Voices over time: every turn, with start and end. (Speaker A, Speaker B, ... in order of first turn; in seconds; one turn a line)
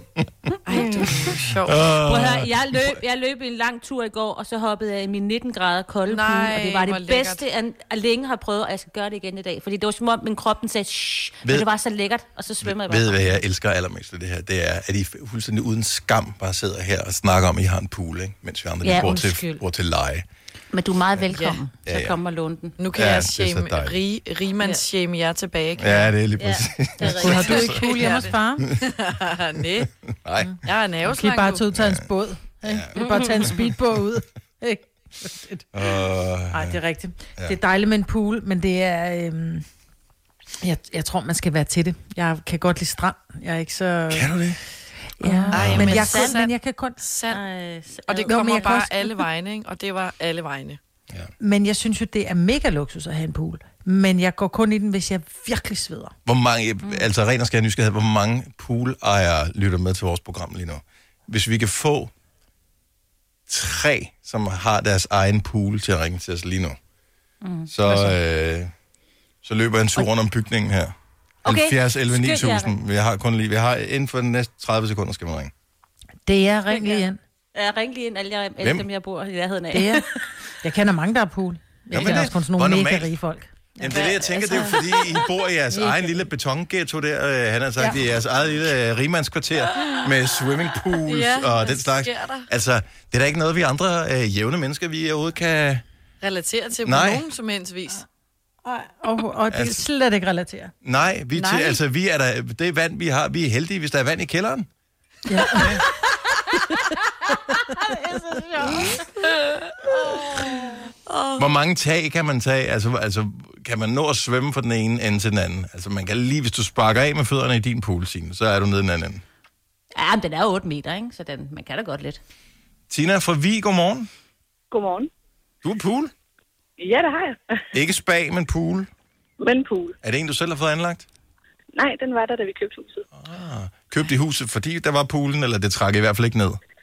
Speaker A: 0.7-1.9
Speaker B: 0.7-3.0
Speaker C: 0.8-1.0
Speaker C: 1.9-13.4
Speaker A: 6.1-7.4
Speaker B: 12.6-20.3
Speaker C: 18.8-19.6
Speaker C: 20.7-22.8
Speaker A: 21.3-21.6
Speaker B: 21.9-22.1
Speaker A: 22.8-26.1
Speaker B: 22.9-24.0
Speaker C: 24.6-24.8
Speaker B: 25.8-27.9
Speaker C: 26.4-28.2
Speaker D: 27.1-28.7
Speaker A: 27.3-29.9
Speaker B: 30.2-30.6
Speaker A: 30.6-31.6
Speaker D: 31.1-35.7
Speaker B: 31.7-32.1
Speaker B: 32.6-33.7
Speaker C: 32.9-33.5
Speaker B: 35.7-36.8
Speaker D: 36.5-39.6
Speaker D: 40.6-44.3
Speaker B: 44.1-44.6
Speaker D: 45.2-47.0
Speaker C: 45.2-46.4
Speaker A: 45.5-47.4
Speaker B: 45.5-46.1
Speaker C: 47.3-48.8
Speaker A: 48.1-50.8
Speaker D: 48.2-49.1
Speaker D: 51.4-56.1
Speaker B: 56.2-62.1
Speaker B: 63.5-66.8
Speaker C: 67.4-68.0
Speaker B: 67.7-68.7
Speaker B: 69.4-70.9
Speaker C: 71.4-72.7
Speaker B: 71.4-75.5
Speaker D: 76.3-77.2
Speaker C: 76.7-80.3
Speaker B: 78.6-78.9
Speaker D: 79.7-80.1
Speaker D: 80.6-84.0
Speaker B: 81.9-83.2
Speaker C: 81.9-82.3
Speaker B: 83.8-95.8
Speaker C: 83.9-85.2
Speaker D: 85.7-86.0
Speaker A: 91.0-92.5
Speaker A: 96.2-98.1
Speaker B: 96.8-97.2
Speaker D: 98.6-100.7
Speaker B: 99.5-99.8
Speaker B: 100.8-104.7
Speaker A: 101.4-101.8
Speaker D: 105.3-105.8
Speaker B: 105.5-105.8
Speaker D: 107.7-109.0
Speaker A: 111.1-111.5
Speaker B: 111.4-119.2
Speaker C: 120.0-122.2
Speaker B: 122.9-124.1
Speaker E: 124.7-125.1
Speaker B: 125.6-126.1
Speaker E: 126.8-127.4
Speaker B: 127.7-128.9
Speaker E: 129.4-129.9
Speaker B: 130.0-131.1
Speaker E: 131.8-133.0
Speaker B: 133.1-136.6